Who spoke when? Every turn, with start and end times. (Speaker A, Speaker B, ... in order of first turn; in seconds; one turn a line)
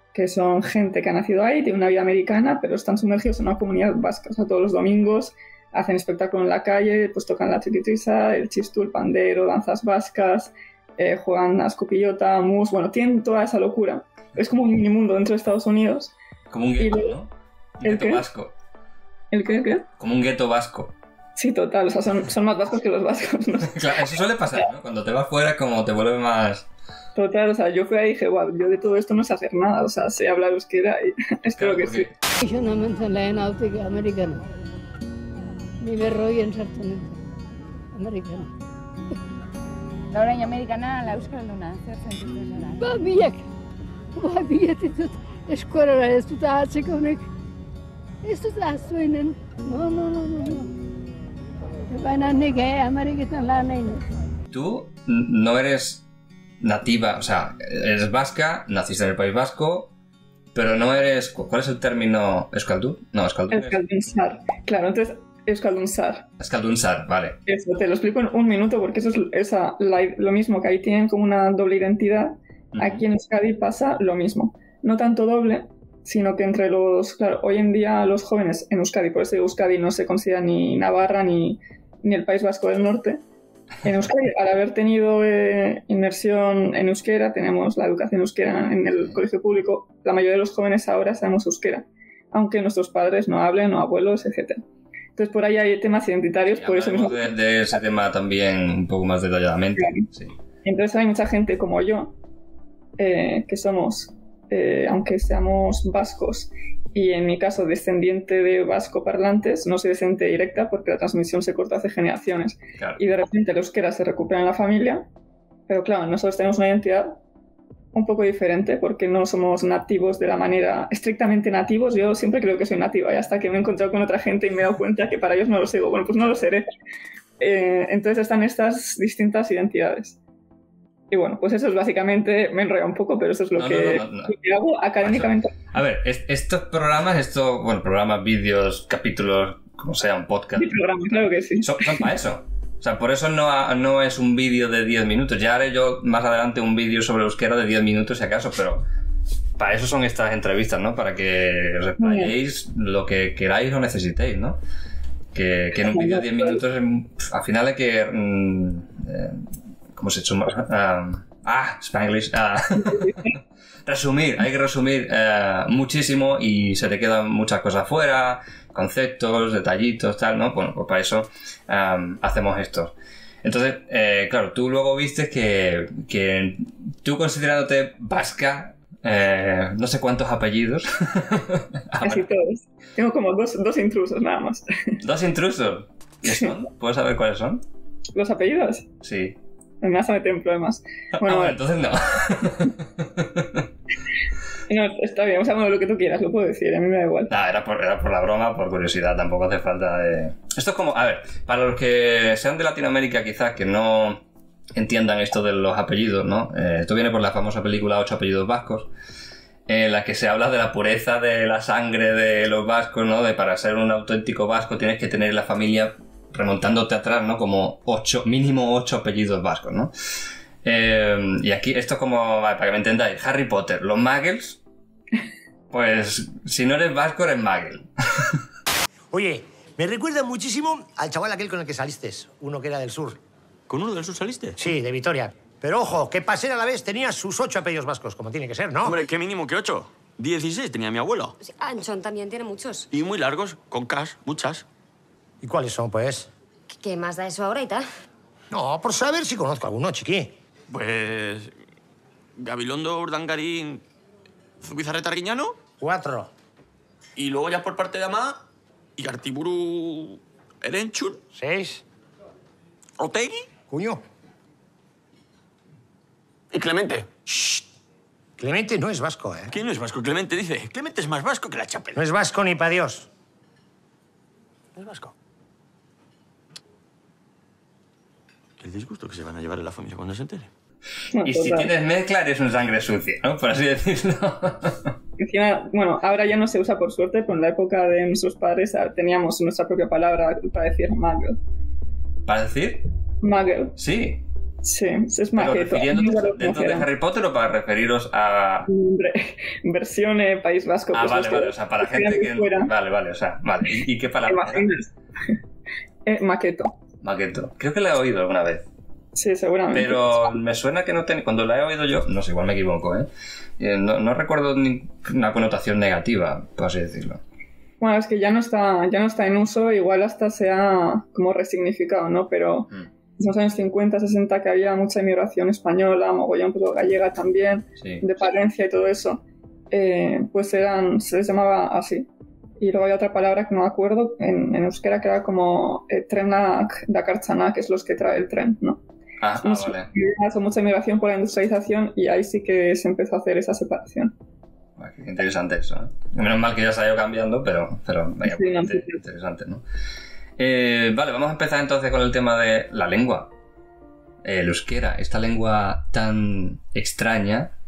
Speaker A: 0.1-16.1
Speaker B: 16.5-18.5
Speaker A: 16.8-17.1
Speaker A: 17.8-18.2
Speaker A: 19.3-19.9
Speaker B: 20.0-20.9
Speaker A: 21.4-24.1
Speaker B: 23.7-26.6
Speaker A: 27.1-32.1
Speaker B: 31.5-32.1
Speaker C: 32.4-34.5
Speaker C: 35.8-37.2
Speaker C: 37.9-38.5
Speaker D: 40.1-42.9
Speaker C: 42.8-43.4
Speaker C: 44.1-47.2
Speaker C: 48.2-50.7
Speaker C: 51.9-54.0
Speaker B: 54.5-56.0
Speaker B: 56.6-59.9
Speaker B: 60.5-63.8
Speaker A: 63.5-66.3
Speaker B: 66.4-67.4
Speaker A: 67.5-83.2
Speaker B: 72.7-73.0
Speaker A: 83.8-94.6
Speaker A: 95.2-97.2
Speaker B: 96.5-100.3
Speaker A: 99.8-100.0
Speaker A: 100.6-102.1
Speaker A: 103.0-115.0
Speaker A: 115.7-117.2
Speaker A: 117.9-126.6
Speaker A: 127.4-130.2
Speaker A: 131.1-135.5
Speaker B: 133.5-134.3
Speaker B: 135.0-140.7
Speaker A: 140.6-142.1
Speaker B: 141.6-148.8
Speaker B: 149.6-154.6
Speaker A: 152.0-152.3
Speaker B: 155.3-159.4
Speaker A: 155.8-156.6
Speaker B: 160.0-163.2
Speaker A: 162.8-163.3
Speaker B: 163.8-182.3
Speaker A: 182.0-185.0
Speaker B: 185.0-187.6
Speaker A: 186.2-186.5
Speaker A: 188.1-188.9
Speaker B: 189.0-189.3
Speaker A: 189.8-191.6
Speaker B: 191.2-193.6
Speaker A: 194.7-197.3
Speaker B: 197.3-204.2
Speaker B: 204.7-208.9
Speaker B: 209.7-219.9
Speaker B: 220.6-224.6
Speaker B: 225.7-228.4
Speaker E: 229.1-233.2
Speaker F: 233.7-234.6
Speaker E: 234.6-239.0
Speaker F: 238.8-241.3
Speaker G: 241.4-242.9
Speaker F: 242.9-244.6
Speaker E: 245.4-246.3
Speaker G: 246.8-247.8
Speaker E: 248.5-250.3
Speaker F: 250.7-251.5
Speaker F: 252.4-253.8
Speaker F: 254.6-255.5
Speaker E: 255.8-256.3
Speaker F: 257.1-258.4
Speaker F: 259.0-261.2
Speaker E: 261.3-261.8
Speaker F: 263.0-263.4
Speaker E: 263.7-264.0
Speaker F: 266.5-267.6
Speaker E: 268.4-269.5
Speaker F: 269.5-272.0
Speaker E: 271.9-273.1
Speaker F: 274.8-275.1
Speaker F: 278.6-280.5
Speaker A: 281.1-281.7
Speaker B: 281.2-284.9
Speaker A: 285.2-291.4
Speaker B: 292.3-292.8
Speaker A: 293.2-293.8
Speaker B: 293.8-294.2
Speaker A: 294.6-296.9
Speaker B: 295.3-298.7
Speaker A: 298.7-302.7
Speaker B: 300.9-304.7
Speaker A: 304.2-304.9
Speaker A: 306.1-306.7
Speaker B: 307.0-308.6
Speaker A: 309.1-310.3
Speaker B: 309.7-313.1
Speaker B: 313.6-317.2
Speaker A: 317.8-332.1
Speaker A: 332.6-338.8
Speaker B: 339.2-339.9
Speaker A: 339.4-344.1
Speaker B: 344.8-349.6
Speaker A: 348.2-349.0
Speaker B: 350.4-353.3
Speaker B: 354.2-357.5